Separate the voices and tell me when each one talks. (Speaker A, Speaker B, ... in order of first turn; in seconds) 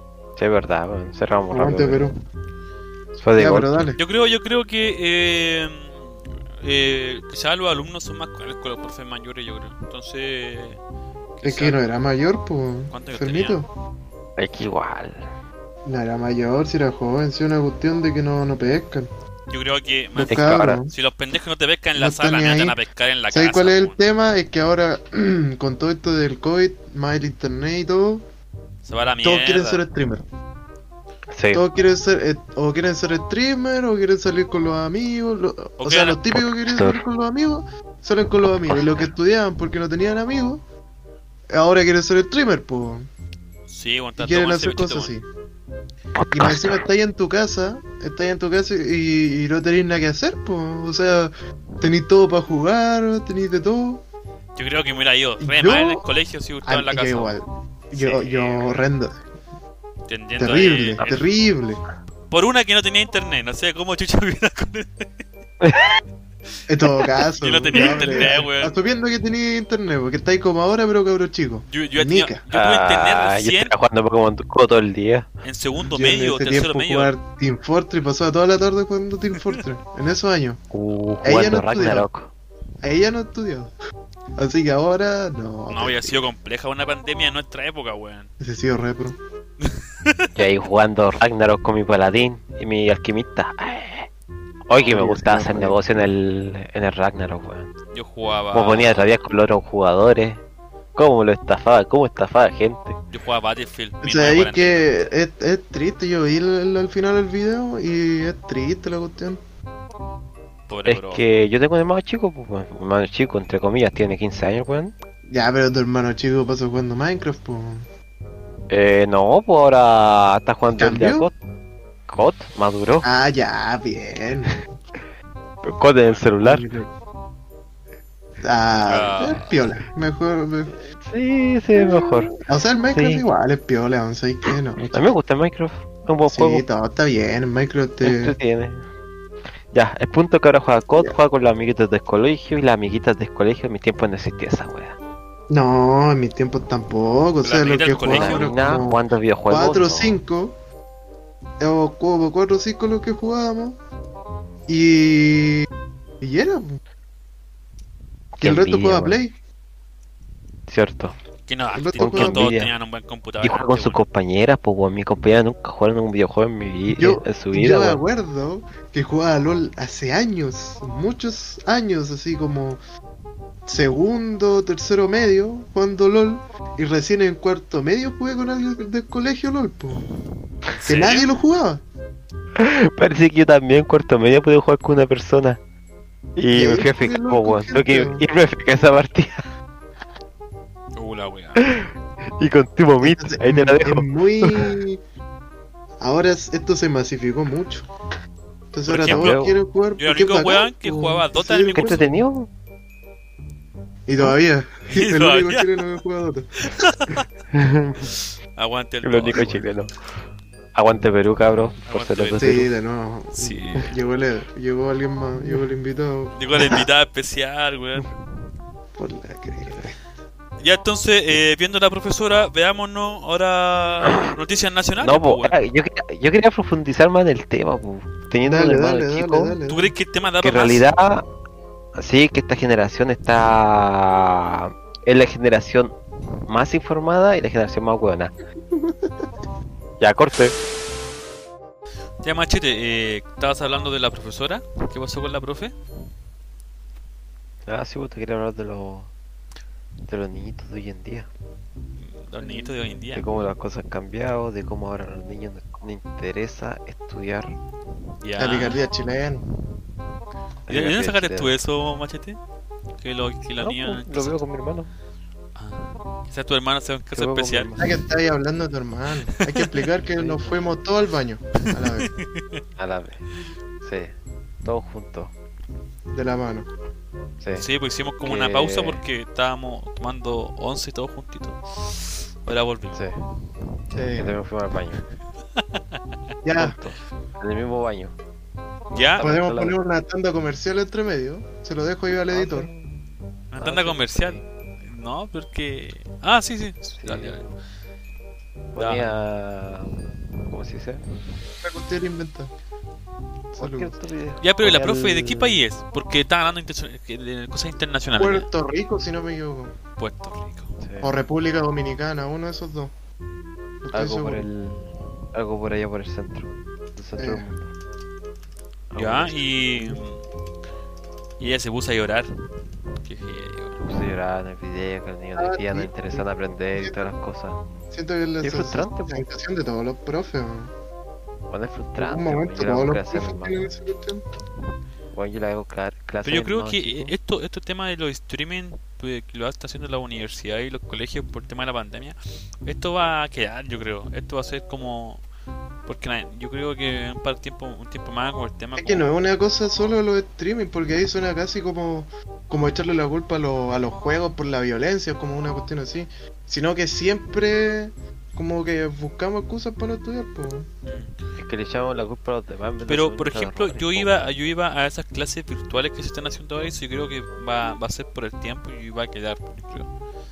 Speaker A: 0.4-2.1, 3.1-3.9, 14.4-15.3, 20.3-20.8, 31.3-31.6, 36.3-37.0, 38.7-39.0, 46.2-46.8, 65.6-66.0, 67.7-68.4, 72.5-75.3, 80.7-82.3, 90.3-94.1, 94.7-97.7, 98.5-100.4, 100.9-103.0, 110.8-114.9, 118.7-121.3, 122.1-123.1, 125.6-126.7, 130.8-132.3, 132.9-133.3, 134.9-136.6, 138.0-138.9, 139.7-145.0, 148.1-150.2, 158.4-159.2, 160.7-161.1, 162.0-162.7, 163.4-168.0, 182.6-185.6, 186.3-189.5, 191.6-194.8, 199.0-199.6, 201.7-202.5, 207.6-208.0, 209.0-209.9, 210.7-212.7, 215.4-215.7, 225.0-229.6, 230.4-231.2, 231.9-235.9, 236.5-238.3, 240.0-240.6, 247.7-249.1, 250.1-251.3, 252.4-257.6, 260.7-261.5, 263.6-264.9, 267.1-268.0, 270.1-270.7, 272.8-273.2, 273.8-275.3, 277.4-277.6, 278.2-279.0, 282.9-283.2, 284.1-285.0, 286.5-288.1, 288.9-289.8, 292.3-292.9, 293.6-294.4, 296.9-297.5, 298.7-301.0, 303.5-305.6, 310.8-311.2, 313.9-317.7, 318.9-320.0, 323.8-327.6, 328.4-329.2, 331.5-333.7, 335.1-337.1, 361.4-364.3
Speaker B: 1.5-2.1, 3.4-4.0, 11.4-13.7, 15.8-19.1, 20.1-20.9, 21.9-22.8, 23.3-28.2, 29.2-30.2, 31.5-40.6, 41.5-43.1, 44.2-45.2, 46.3-54.0, 55.4-56.0, 56.6-59.2, 60.4-61.8, 66.7-72.4, 75.9-80.6, 81.2-82.1, 82.8-83.7, 84.4-86.3, 88.4-89.2, 94.7-95.9, 104.0-109.4, 115.3-117.8, 120.8-121.3, 123.0-124.7, 126.4-126.9, 128.4-130.8, 131.8-135.1, 136.3-138.3, 145.5-150.5, 151.6-153.8, 154.7-155.7, 156.2-156.8, 158.4-159.3, 161.7-162.5, 167.0-172.8, 173.7-180.1, 180.9-181.8, 186.5-188.2, 193.0-195.0, 196.0-197.9, 198.7-202.2, 204.1-206.8, 212.4-216.8, 218.9-220.1, 228.4-229.9, 238.7-239.3, 258.4-259.4, 267.8-272.1, 276.1-276.7, 283.9-284.4, 286.4-286.8, 289.2-292.7, 301.6-302.5, 303.6-303.9, 308.1-309.7, 311.0-312.9, 313.8-314.5, 317.2-317.5, 325.4-327.1, 327.9-330.7, 332.0-334.2, 348.8-360.7
Speaker C: 4.0-10.8, 11.4-11.8, 12.9-13.6, 19.5-24.0, 28.8-29.8, 35.8-36.2, 43.7-45.1, 54.5-57.4, 57.9-58.9, 60.1-61.3, 62.3-65.1, 67.4-68.8, 71.7-73.7, 75.4-77.1, 79.3-79.6, 85.7-88.3, 89.6-90.3, 97.9-99.2, 103.1-104.9, 110.7-111.2, 126.0-126.3, 128.8-129.5, 147.4-148.5, 161.5-164.0, 180.7-181.3, 190.9-191.7, 198.8-199.4, 200.0-202.1, 204.9-205.8, 206.6-207.3, 208.6-209.7, 211.8-212.6, 213.3-213.9, 216.3-218.1, 220.6-225.6, 229.7-230.9, 242.2-245.7, 252.0-253.2, 258.2-258.8, 260.7-262.4, 263.0-264.4, 265.6-267.7, 271.7-272.6, 277.5-283.1, 285.6-286.0, 288.9-289.2, 293.5-297.5, 298.8-299.1, 304.4-308.5, 310.0-310.8, 318.9-320.2, 321.4-322.3, 323.0-323.8, 336.2-345.2, 345.8-349.1, 360.8-361.2, 362.9-369.9